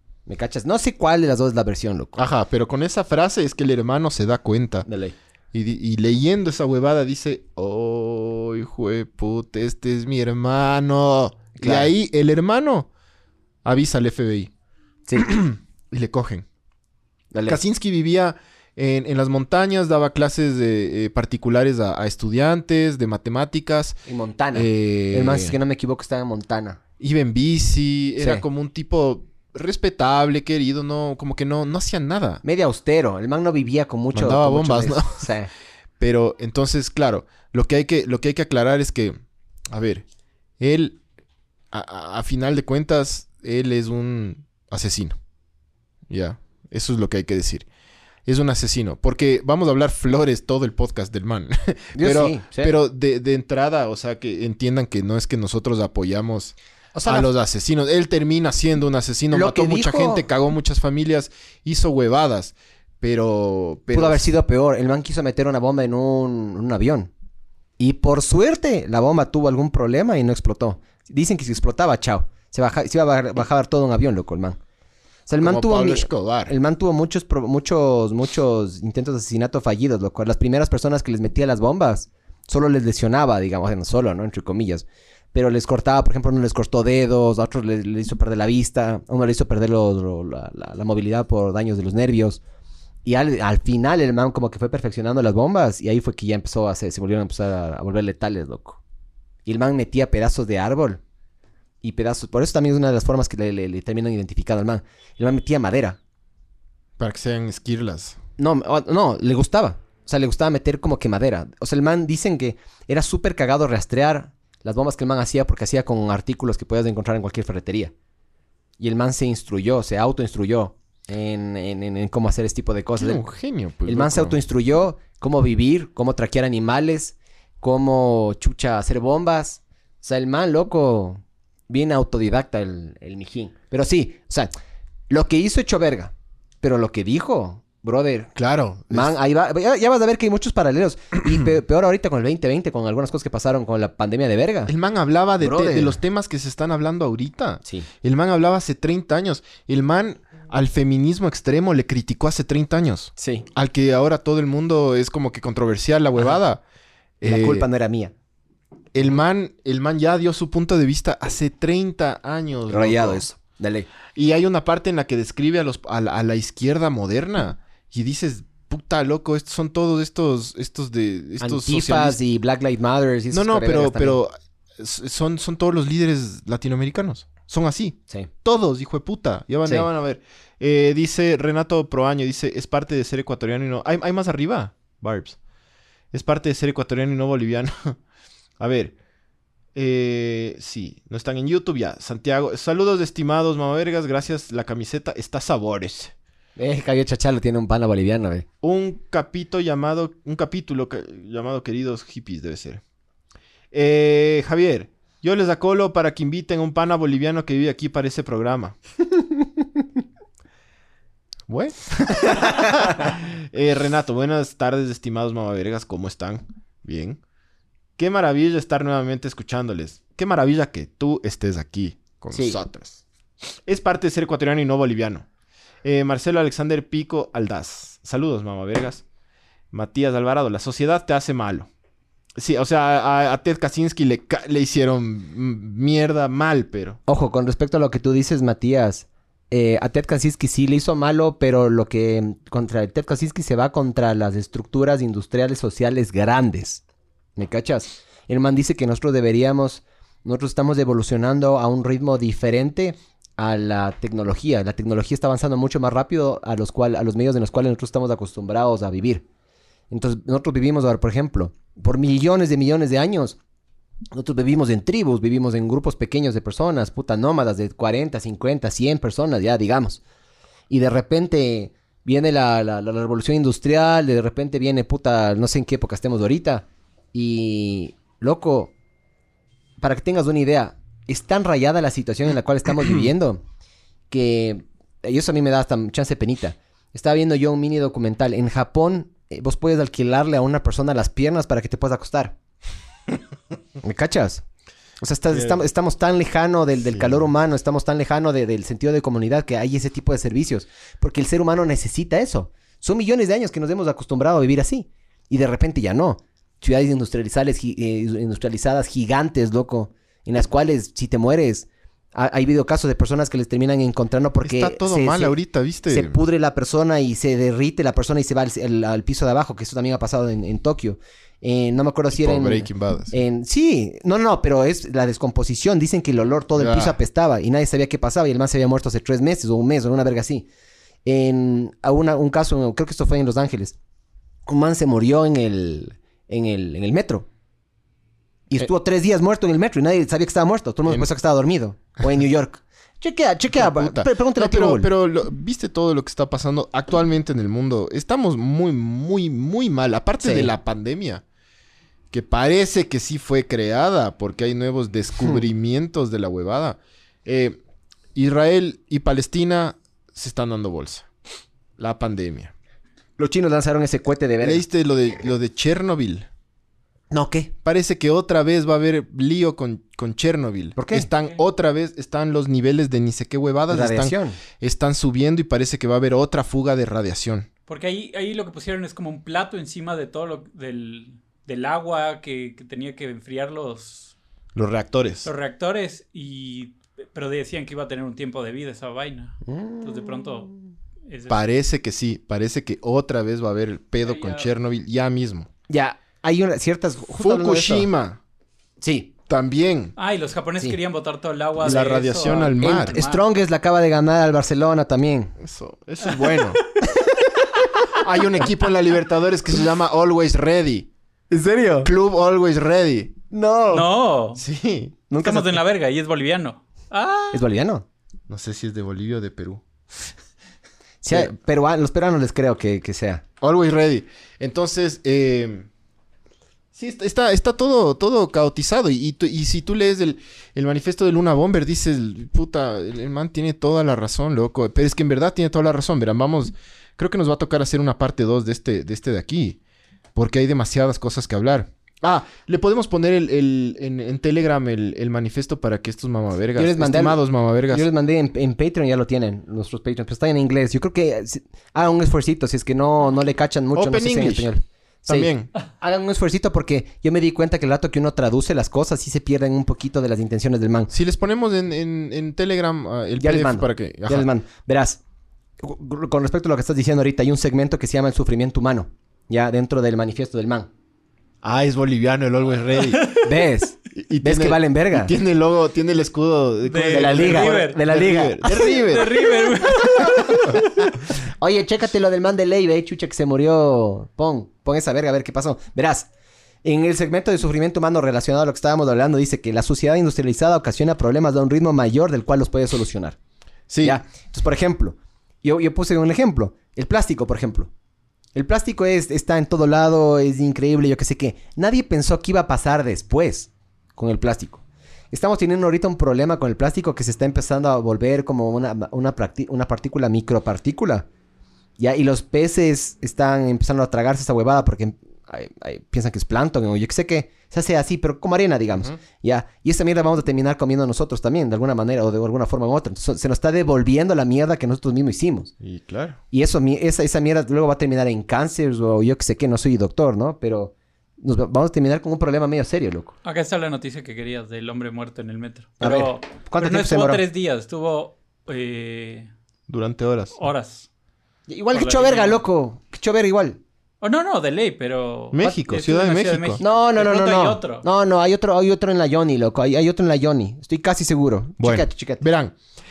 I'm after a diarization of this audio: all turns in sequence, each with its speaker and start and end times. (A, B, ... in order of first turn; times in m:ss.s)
0:00.3-0:02.2 A
0:02.2-0:04.9 B
0:04.9-0:05.1 A
0:05.5-0:12.9 B
0:11.6-0:11.9 A
0:13.6-0:14.5 B
0:15.2-0:16.4 B
0:17.3-0:17.6 A
0:17.5-0:24.0 B
0:24.1-0:26.8 A
0:24.5-0:25.6 B
0:27.0-0:32.4 B
0:28.2-0:28.4 A
0:32.4-0:35.5 A
0:34.1-0:35.3 B
0:36.0-0:39.2 B
0:39.7-0:40.0 B
0:40.6-0:41.0 B
0:41.7-0:45.2 B
0:46.1-0:47.6 B
0:48.3-0:56.6 B
0:51.9-0:52.7 A
0:56.9-0:57.3 A
0:57.1-1:04.2 B
0:59.3-1:00.2 A
1:03.9-1:07.1 A
1:07.8-1:14.6 A
1:15.3-1:32.4 A
1:15.4-1:16.5 B
1:33.0-1:38.8 A
1:39.4-1:41.0 A
1:41.8-1:46.0 A
1:47.0-1:48.2 B
1:48.4-1:57.9 A
1:58.8-2:03.2 A
2:03.0-2:04.4 B
2:03.9-2:14.5 A
2:15.1-2:18.3 A
2:18.4-2:19.1 B
2:18.9-2:24.7 A
2:24.7-2:36.6 B
2:25.4-2:26.0 A
2:33.2-2:33.4 A
2:37.2-2:37.7 B
2:37.2-2:38.1 A
2:38.9-2:43.2 B
2:42.7-2:43.9 A
2:44.1-2:52.2 B
2:51.4-2:54.2 A
2:53.3-3:05.4 B
3:06.1-3:08.0 B
3:08.6-3:09.0 B
3:09.8-3:16.1 B
3:16.6-3:18.4 A
3:18.6-3:22.8 B
3:23.7-3:28.8 B
3:31.5-3:37.2 B
3:32.4-3:33.1 A
3:38.0-3:43.0 B
3:42.3-3:42.6 A
3:43.6-3:45.3 B
3:45.8-3:49.0 B
3:49.7-3:51.7 B
3:52.4-3:57.0 B
3:57.1-4:06.8 A
4:07.4-4:19.2 A
4:19.9-4:23.4 A
4:24.1-4:30.0 A
4:30.7-4:38.7 A
4:39.8-4:43.4 A
4:44.1-4:52.4 A
4:53.8-4:54.4 A
4:55.0-5:15.4 A
4:55.3-4:55.6 B
4:56.9-4:57.3 B
5:14.4-5:16.2 B
5:15.9-5:30.5 A
5:22.1-5:23.1 B
5:26.6-5:27.0 B
5:31.0-5:33.8 A
5:34.5-5:37.3 A
5:38.5-5:44.9 A
5:43.5-5:51.2 B
5:50.2-5:50.5 A
5:52.1-5:57.6 B
5:58.1-6:01.1 B
6:01.8-6:02.5 B
6:03.2-6:04.6 A
6:04.4-6:06.3 B
6:07.1-6:07.5 A
6:07.6-6:17.5 B
6:10.8-6:11.1 A
6:13.7-6:14.4 A
6:17.7-6:24.1 C
6:24.6-6:25.3 B
6:25.2-6:30.5 C
6:29.4-6:30.2 A
6:31.1-6:31.4 C
6:31.3-6:35.5 B
6:34.0-6:34.5 C
6:35.7-6:37.9 A
6:37.2-6:38.2 B
6:38.8-6:39.1 A
6:39.3-6:39.9 B
6:40.0-6:43.2 C
6:41.6-6:43.0 B
6:42.3-6:45.3 A
6:45.4-6:46.6 B
6:46.9-6:47.3 A
6:47.8-6:50.9 B
6:51.3-6:51.9 A
6:51.8-6:53.1 B
6:53.3-6:53.9 A
6:53.7-6:54.4 C
6:54.4-6:55.0 B
6:55.1-6:55.6 A
6:55.2-6:57.4 C
6:57.3-6:57.8 A
6:58.3-6:59.6 B
7:01.0-7:03.2 A
7:03.4-7:05.7 B
7:06.7-7:19.6 B
7:20.1-7:27.9 B
7:26.6-7:40.9 A
7:33.7-7:34.5 B
7:35.1-7:35.5 B
7:40.9-7:44.3 B
7:43.2-7:45.0 A
7:45.6-7:50.7 A
7:51.4-7:53.2 B
7:53.2-7:55.1 A
7:54.0-8:00.6 B
7:56.7-7:57.8 C
7:56.9-7:58.8 A
7:58.4-8:00.6 C
8:00.0-8:00.3 A
8:01.4-8:06.1 A
8:06.6-8:13.2 A
8:13.7-8:14.0 B
8:13.8-8:17.7 A
8:18.4-8:31.1 A
8:31.8-8:45.5 A
8:45.6-8:46.2 B
8:46.3-8:53.1 A
8:53.2-8:59.3 C
8:55.8-8:57.2 A
8:59.7-9:00.4 B
9:00.4-9:00.9 C
9:01.5-9:03.6 A
9:01.7-9:02.4 C
9:04.0-9:07.8 C
9:05.3-9:06.6 B
9:06.6-9:12.2 A
9:11.6-9:12.6 B